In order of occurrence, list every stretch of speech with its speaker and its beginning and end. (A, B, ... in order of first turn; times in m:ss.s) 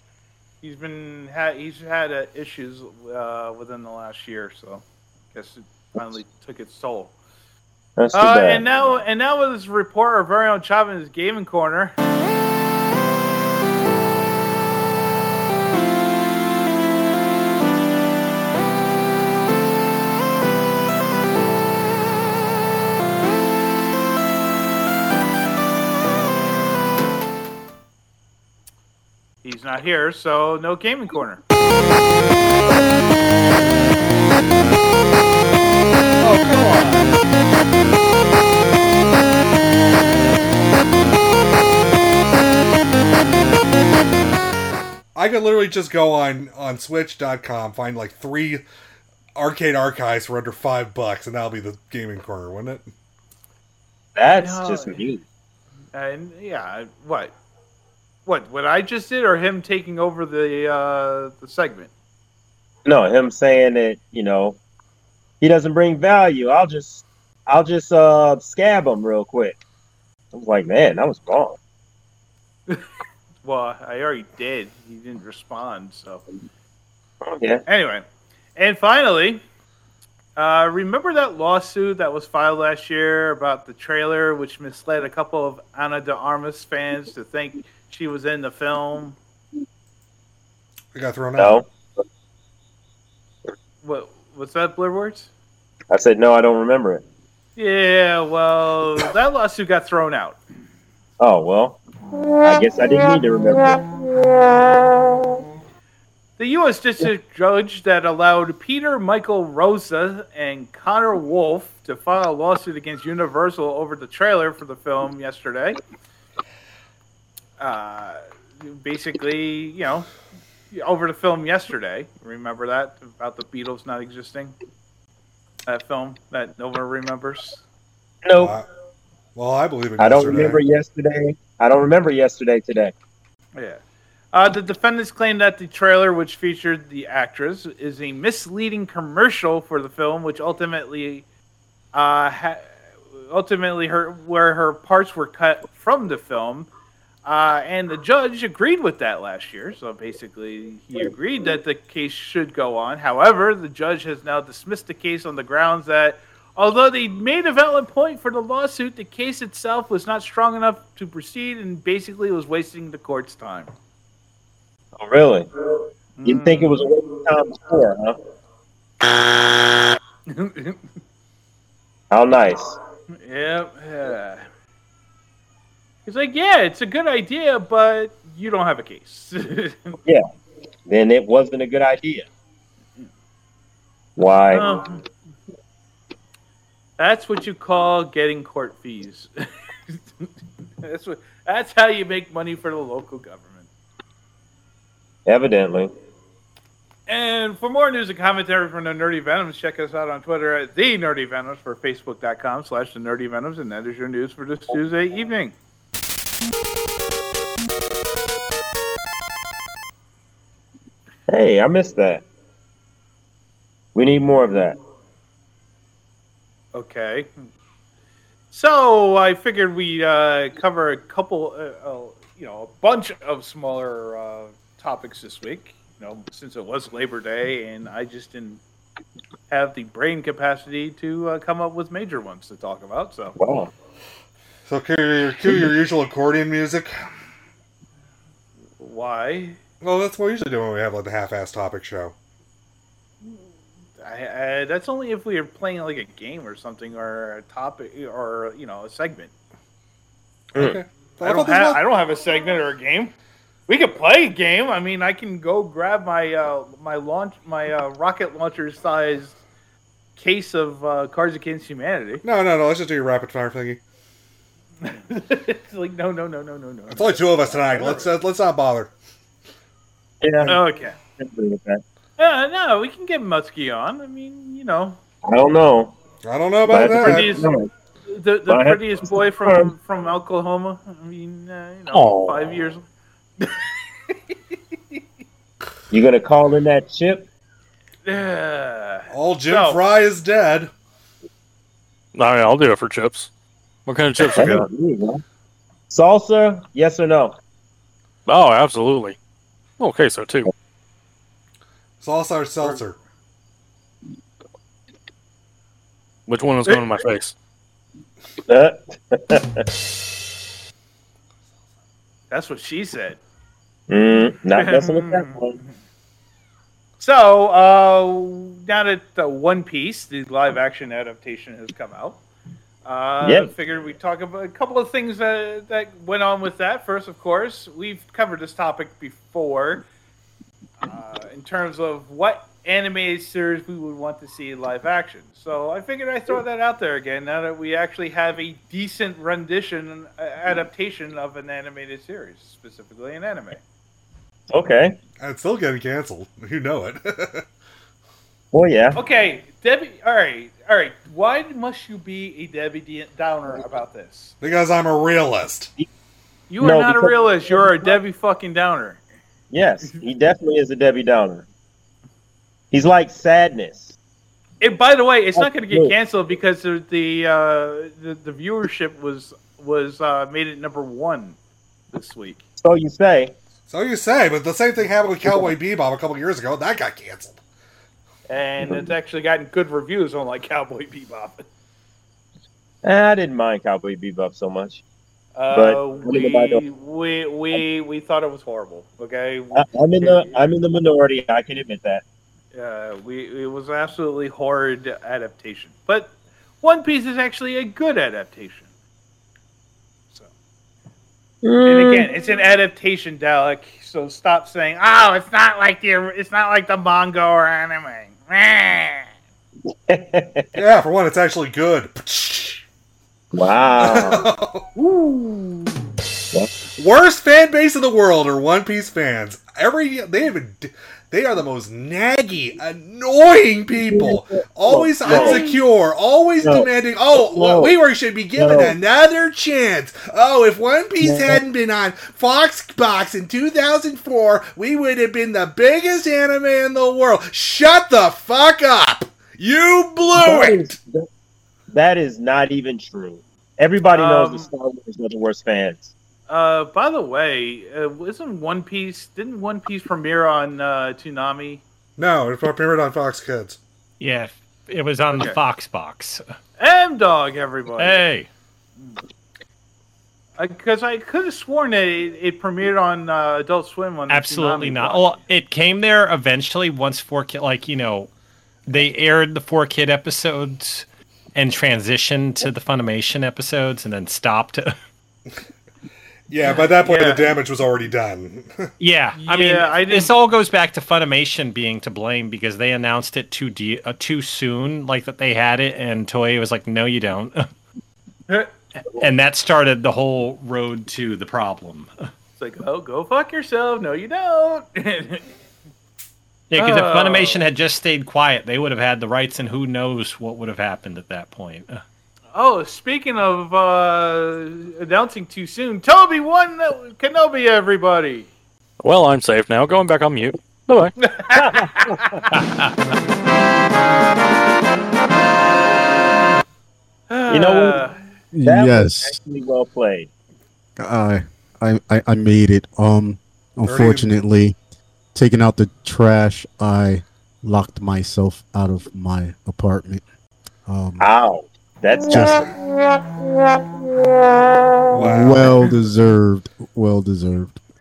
0:00.6-0:04.8 A
0:05.3-0:07.1 A
0:08.0-0:08.6 B
0:08.1-0:11.9 A
0:29.4-0:31.4 A
0:36.2-0:37.2 C
0:45.1-0:48.6 C
0:49.4-0:52.8 C
0:54.1-0:55.2 B
0:54.4-0:55.0 A
0:55.9-0:57.3 A
0:58.2-1:01.9 A
1:02.8-1:04.6 B
1:05.4-1:09.6 B
1:10.3-1:11.6 B
1:13.4-1:16.2 A
1:17.2-1:17.6 B
1:17.7-1:18.0 A
1:18.6-1:19.4 A
1:20.4-1:29.2 A
1:30.9-1:31.6 C
1:31.4-1:31.7 B
1:33.8-1:35.3 A
1:35.9-1:37.0 B
1:37.6-1:40.4 A
1:41.2-1:41.8 B
1:42.4-1:43.8 B
1:46.4-1:55.8 A
1:57.6-2:00.1 A
2:00.7-2:04.5 A
2:05.7-2:07.6 A
2:08.2-2:08.6 B
2:08.4-2:08.6 C
2:09.3-2:10.6 C
2:10.0-2:12.9 B
2:13.5-2:13.8 A
2:14.3-2:21.2 A
2:21.9-2:26.7 A
2:27.2-2:43.7 A
2:45.0-2:45.5 B
2:46.2-2:46.8 A
2:46.2-2:48.2 B
2:50.3-2:50.8 A
2:52.1-2:52.8 B
2:53.1-2:54.5 A
2:56.0-3:00.0 A
3:00.9-3:02.3 B
3:04.2-3:04.7 B
3:04.5-3:05.0 A
3:07.0-3:09.3 A
3:09.9-3:13.7 A
3:15.2-3:15.9 B
3:17.1-3:25.5 A
3:31.3-3:32.2 B
3:33.9-3:34.8 B
3:36.7-3:37.3 A
3:38.5-3:48.6 A
3:49.5-3:53.4 A
3:53.4-3:53.7 B
3:54.7-3:56.9 C
3:58.8-3:59.6 A
3:59.8-4:02.1 C
4:04.0-4:09.3 A
4:10.5-4:11.8 C
4:11.2-4:13.1 A
4:13.7-4:19.4 A
4:20.2-4:22.2 A
4:22.2-4:23.8 C
4:24.8-4:28.1 A
4:26.9-4:28.9 C
4:30.2-4:30.6 B
4:30.4-4:31.0 A
4:31.2-4:31.8 B
4:32.2-4:35.0 A
4:35.2-4:35.9 B
4:36.2-4:37.4 C
4:36.7-4:37.7 B
4:36.9-4:37.5 A
4:38.1-4:42.8 A
4:38.5-4:39.7 B
4:41.9-4:42.6 D
4:43.4-4:44.3 A
4:45.9-4:47.3 B
4:48.0-4:49.8 A
4:49.1-4:50.7 C
4:52.1-4:53.3 D
4:53.8-4:54.7 D
4:54.2-4:55.2 B
4:55.9-4:57.4 B
4:58.2-4:59.2 D
4:59.8-5:00.5 D
5:02.0-5:03.0 C
5:06.3-5:07.3 D
5:08.5-5:09.7 B
5:12.3-5:13.2 A
5:13.9-5:15.6 B
5:14.6-5:15.7 A
5:17.0-5:22.2 A
5:22.8-5:29.8 A
5:23.2-5:23.5 B
5:30.8-5:43.6 A
5:44.5-5:45.0 B
5:45.2-5:47.4 C
5:48.5-5:49.0 B
5:48.9-5:54.3 A
5:54.4-5:55.7 C
5:56.5-5:59.0 A
5:56.6-5:58.0 B
5:59.5-6:01.4 B
6:02.7-6:04.0 B
6:04.6-6:11.4 A
6:05.4-6:05.9 B
6:11.9-6:12.4 A
6:12.6-6:13.4 B
6:13.7-6:17.4 C
6:15.2-6:15.5 B
6:18.3-6:21.4 A
6:22.8-6:24.8 B
6:25.4-6:30.4 A
6:25.5-6:26.6 B
6:29.5-6:32.0 B
6:32.5-6:38.7 A
6:41.4-6:42.1 B
6:41.6-6:49.1 A
6:49.9-6:50.5 B
6:50.5-6:52.6 C
6:53.3-6:54.2 B
6:53.8-6:54.6 C
6:54.8-6:55.9 A
6:56.8-7:20.7 C
7:03.8-7:05.5 B
7:05.0-7:05.6 A
7:06.4-7:07.7 B
7:08.3-7:08.8 B
7:11.0-7:11.4 B
7:20.1-7:21.1 B
7:21.7-7:25.9 B
7:23.9-7:24.5 A
7:26.3-7:31.6 A
7:32.0-7:33.6 C
7:34.0-7:36.2 E
7:35.1-7:35.4 A
7:36.6-7:38.0 A
7:37.8-7:38.3 E
7:40.4-7:45.2 A
7:44.1-7:48.1 E
7:48.7-7:54.7 E
7:56.3-7:58.7 C
7:56.8-7:57.3 A
7:58.8-8:07.5 E
7:59.1-8:00.1 A
8:09.0-8:11.9 E
8:12.4-8:15.2 A
8:16.5-8:21.8 E
8:16.6-8:17.4 A
8:22.3-8:28.3 A
8:28.8-8:30.9 D
8:31.0-8:32.3 A
8:31.3-8:32.0 B
8:32.3-8:32.7 E
8:37.1-8:38.0 A
8:37.3-8:37.8 B
8:38.3-8:39.2 F
8:38.4-8:40.1 B
8:40.8-8:44.6 F
8:43.6-8:44.1 C
8:45.1-8:50.0 F
8:50.6-8:51.1 F
8:51.0-8:52.6 B
8:52.1-8:52.5 F
8:54.9-8:55.7 C
8:55.0-8:57.6 F